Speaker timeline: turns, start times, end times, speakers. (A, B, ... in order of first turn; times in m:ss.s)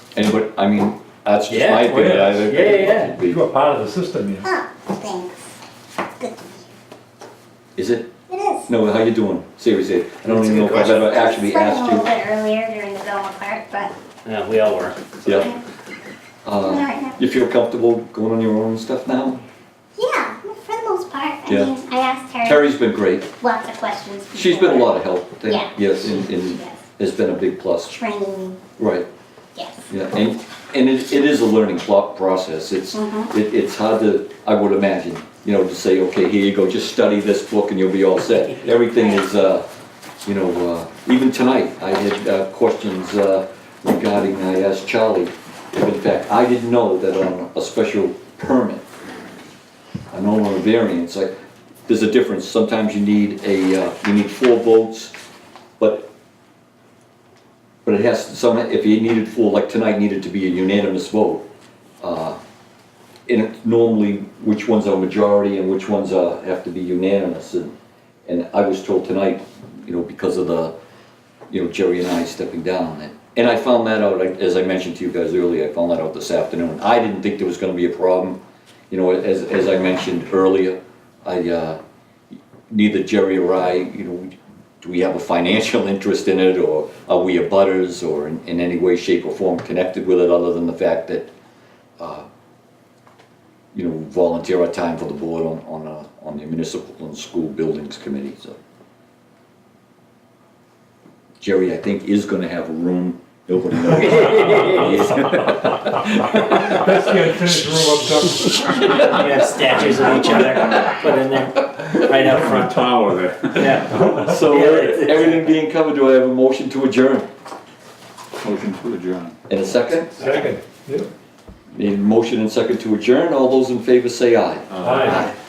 0:00.2-0:03.4 A
0:01.5-0:03.2 B
0:01.9-0:02.4 C
0:03.1-0:04.5 C
0:04.4-0:05.4 D
0:06.2-0:06.7 D
0:07.8-0:12.1 A
0:08.3-0:08.7 D
0:10.3-0:11.0 B
0:10.9-0:14.0 D
0:14.2-0:15.2 B
0:15.3-0:15.6 D
0:16.4-0:19.4 A
0:16.6-0:17.3 D
0:20.0-0:22.7 D
0:21.5-0:21.7 A
0:22.4-0:23.4 A
0:23.4-0:26.8 D
0:24.3-0:28.0 A
0:27.9-0:28.6 D
0:28.8-0:29.1 A
0:29.6-0:29.8 D
0:29.9-0:39.7 A
0:32.9-0:33.3 D
0:38.9-0:39.2 D
0:40.2-0:48.9 A
0:50.1-0:51.3 A
0:51.9-0:55.1 A
0:55.8-0:56.1 A
0:57.8-1:01.5 A
1:02.0-1:02.4 A
1:03.3-1:07.7 A
1:08.3-1:10.7 A
1:11.5-1:18.4 A
1:18.9-1:21.8 A
1:22.7-1:31.3 A
1:32.0-1:32.3 A
1:33.7-1:38.6 A
1:41.4-1:46.8 A
1:44.2-1:45.0 B
1:46.4-1:48.9 C
1:48.8-1:52.9 B
1:52.4-1:54.0 E
1:53.6-1:55.5 B
1:54.0-1:57.3 A
1:58.4-1:59.4 E
1:59.5-2:00.2 A
2:00.2-2:01.1 C
2:01.7-2:05.3 A
2:04.7-2:05.3 E
2:04.8-2:05.2 C